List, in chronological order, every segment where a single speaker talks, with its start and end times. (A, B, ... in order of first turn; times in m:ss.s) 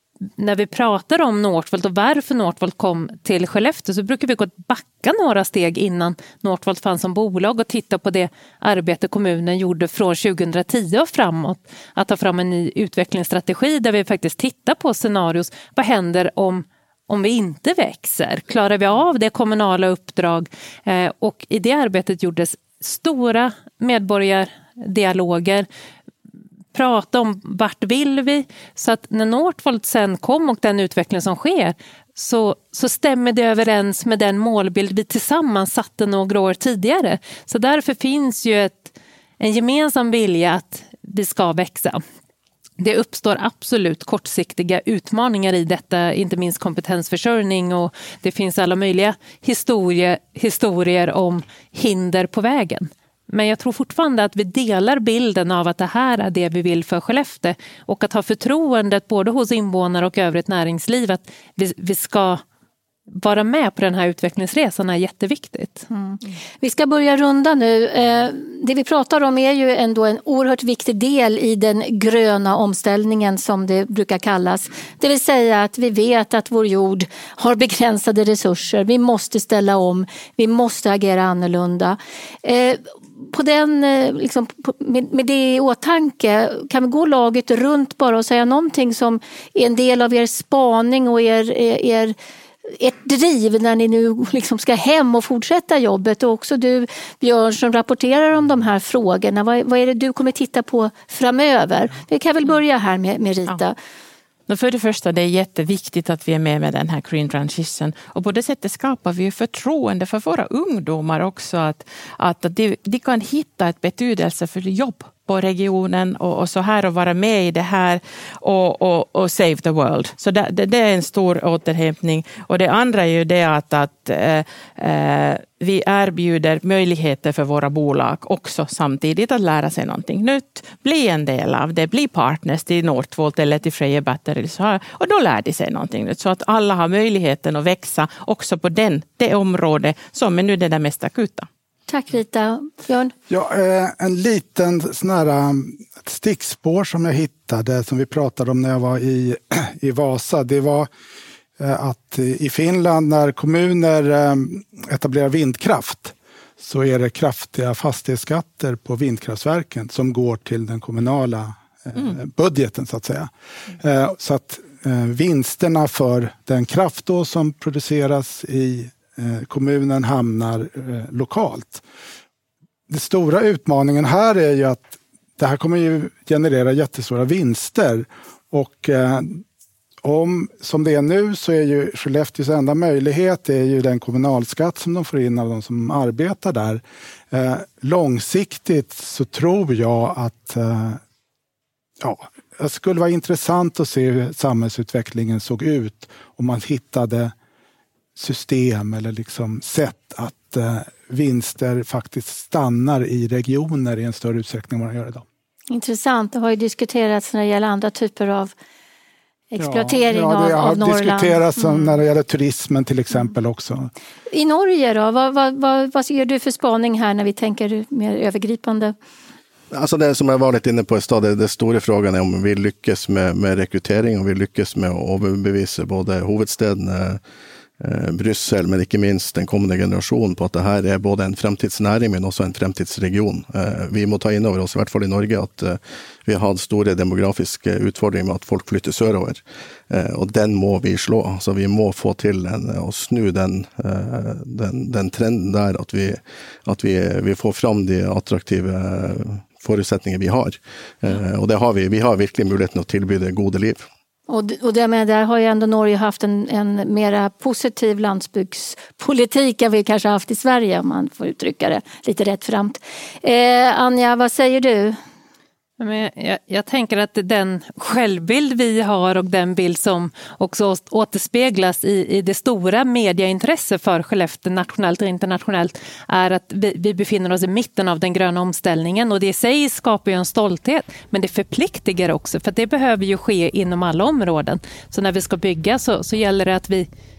0:00.4-0:25.7 A
0:26.7-0:42.0 A
0:42.8-1:02.4 A
1:03.1-1:05.9 A
1:05.9-1:32.1 B
1:32.7-1:43.8 B
1:44.5-2:21.5 C
2:21.9-2:23.1 B
2:23.3-2:30.9 D
2:31.6-2:51.8 D
2:52.9-2:59.4 D
3:00.0-3:11.0 D
3:12.0-3:17.3 D
3:18.2-3:25.2 D
3:25.7-3:28.5 B
3:29.5-3:31.4 B
3:29.6-3:33.9 D
3:34.3-3:38.9 B
3:39.7-3:47.2 E
3:47.8-4:13.8 E
4:14.3-4:25.0 B
4:25.8-4:46.9 A